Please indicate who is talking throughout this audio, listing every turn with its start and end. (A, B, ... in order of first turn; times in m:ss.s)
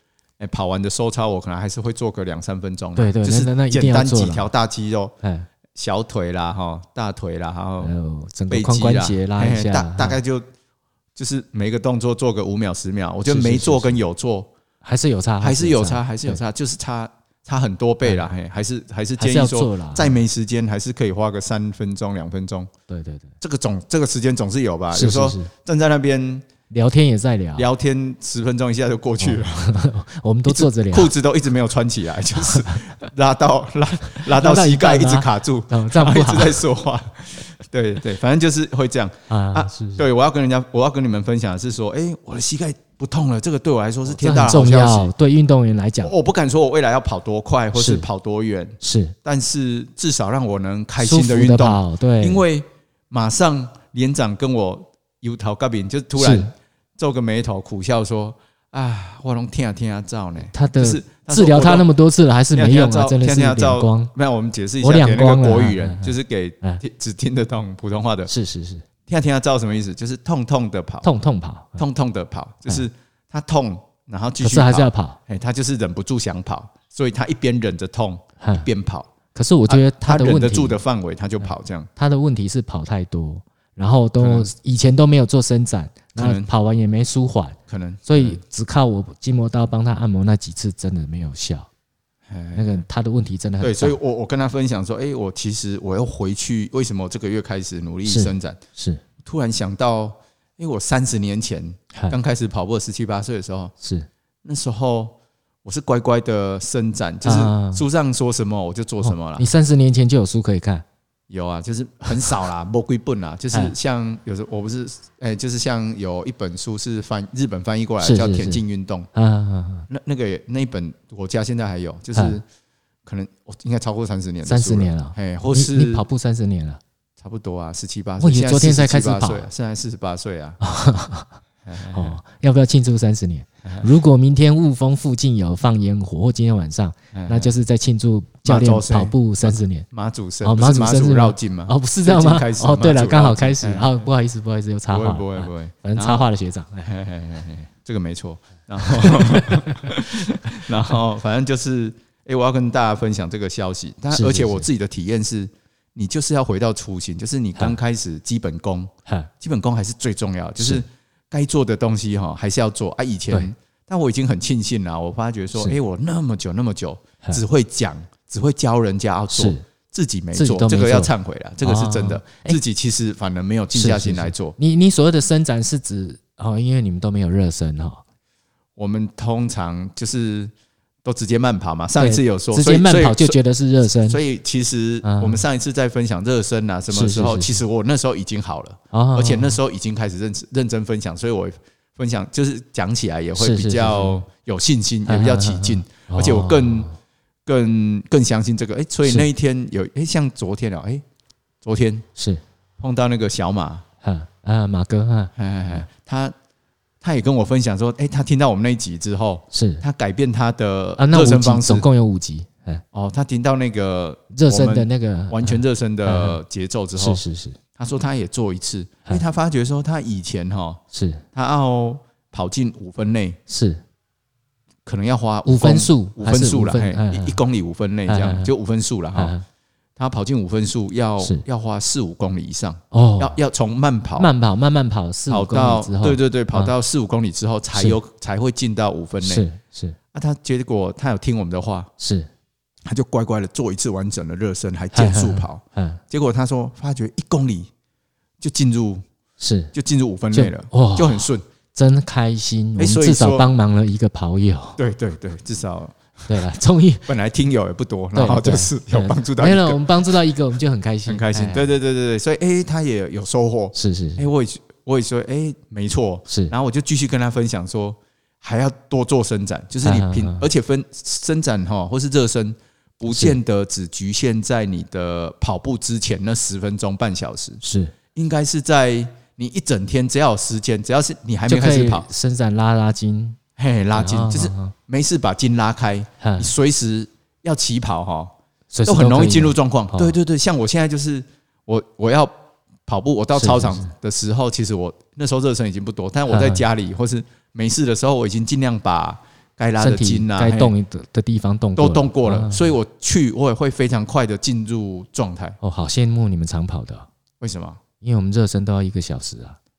0:00.4-0:05.1 A
0:03.0-0:04.5 B
0:05.2-0:05.5 B
0:05.8-0:07.9 A
0:07.8-0:10.2 B
0:08.5-0:10.4 A
0:11.2-0:14.5 A
0:13.3-0:14.0 B
0:14.8-0:16.4 B
0:15.4-0:22.7 A
0:19.2-0:20.2 B
0:22.9-0:23.3 B
0:23.4-0:26.5 A
0:24.9-0:25.5 B
0:26.7-0:27.7 B
0:27.6-0:29.7 A
0:29.2-0:31.1 B
0:30.5-0:45.1 A
0:32.4-0:32.7 B
0:34.2-0:36.6 B
0:39.3-0:40.0 B
0:44.1-0:46.1 B
0:46.0-1:01.9 A
0:47.7-0:48.1 B
0:48.8-0:49.2 B
0:51.0-0:52.4 B
0:56.2-0:56.5 B
1:00.5-1:04.1 B
1:02.6-1:08.3 A
1:04.8-1:06.8 B
1:08.3-1:08.8 B
1:09.1-1:11.1 A
1:11.0-1:11.8 B
1:11.8-1:19.1 A
1:14.4-1:15.2 B
1:18.4-1:18.7 B
1:19.3-1:20.8 B
1:19.7-1:21.9 A
1:22.0-1:31.7 B
1:24.2-1:24.5 A
1:26.2-1:26.5 A
1:27.7-1:28.4 A
1:32.3-1:32.8 A
1:32.6-1:34.0 B
1:33.6-1:38.6 A
1:38.0-1:39.0 B
1:39.2-1:43.7 A
1:43.8-1:44.1 B
1:44.4-1:49.5 A
1:47.2-1:47.8 B
1:49.0-1:50.8 B
1:51.3-1:59.1 A
1:58.0-1:58.6 B
1:59.1-1:59.9 B
1:59.9-2:02.4 A
2:02.2-2:02.4 B
2:03.1-2:06.0 A
2:04.4-2:06.8 B
2:07.2-2:10.6 A
2:08.2-2:09.5 B
2:10.6-2:11.3 B
2:11.7-2:12.2 A
2:11.9-2:19.9 B
2:17.1-2:17.5 A
2:18.4-2:24.0 A
2:20.4-2:26.9 B
2:24.9-2:26.3 A
2:26.8-2:54.6 A
2:28.9-2:29.8 B
2:34.1-2:34.7 B
2:40.6-2:40.8 B
2:49.3-2:49.6 B
2:50.3-2:52.6 B
2:53.7-2:58.0 B
2:58.8-3:00.5 A
3:01.0-3:03.4 A
3:02.0-3:04.2 B
3:04.0-3:16.9 A
3:05.0-3:05.4 B
3:06.9-3:07.6 B
3:08.9-3:09.6 B
3:13.4-3:14.2 B
3:15.1-3:16.9 B
3:17.5-3:21.0 A
3:21.6-3:22.1 A
3:22.8-3:23.8 A
3:24.0-3:25.9 B
3:25.4-3:26.3 A
3:27.0-3:31.9 A
3:29.5-3:29.8 B
3:31.0-3:32.8 B
3:32.9-3:37.2 A
3:34.3-3:36.4 B
3:37.0-3:37.6 B
3:37.8-3:40.8 A
3:40.9-3:41.2 B
3:41.4-3:43.4 A
3:43.5-3:43.8 B
3:44.8-3:49.4 A
3:45.5-3:47.4 B
3:48.1-3:48.5 B
3:49.2-3:49.4 B
3:50.0-3:54.3 A
3:52.9-3:53.4 B
3:54.2-3:56.7 B
3:55.3-3:59.5 A
3:59.2-4:00.0 B
4:00.1-4:01.9 A
4:02.0-4:02.3 B
4:02.9-4:07.7 A
4:04.9-4:06.0 B
4:08.4-4:09.0 A
4:09.4-4:09.7 B
4:09.7-4:11.4 A
4:10.3-4:14.8 B
4:12.8-4:13.5 A
4:14.8-4:16.3 A
4:16.3-4:17.1 B
4:17.1-4:19.8 A
4:18.1-4:21.7 B
4:21.1-4:37.6 A
4:23.7-4:24.3 B
4:26.3-4:26.5 B
4:29.8-4:30.5 B
4:33.1-4:33.4 B
4:37.6-4:37.9 B
4:38.2-4:42.1 A
4:41.5-4:43.4 B
4:43.6-4:48.3 A
4:43.9-4:44.7 B
4:46.2-4:46.5 B
4:48.7-4:50.2 B
4:48.9-4:52.3 A
4:52.9-5:00.7 A
4:53.4-4:53.9 B
4:56.3-4:56.6 B
4:59.8-5:02.7 B
5:01.8-5:05.6 A
5:05.6-5:07.1 B
5:07.4-5:07.8 A
5:08.0-5:09.6 B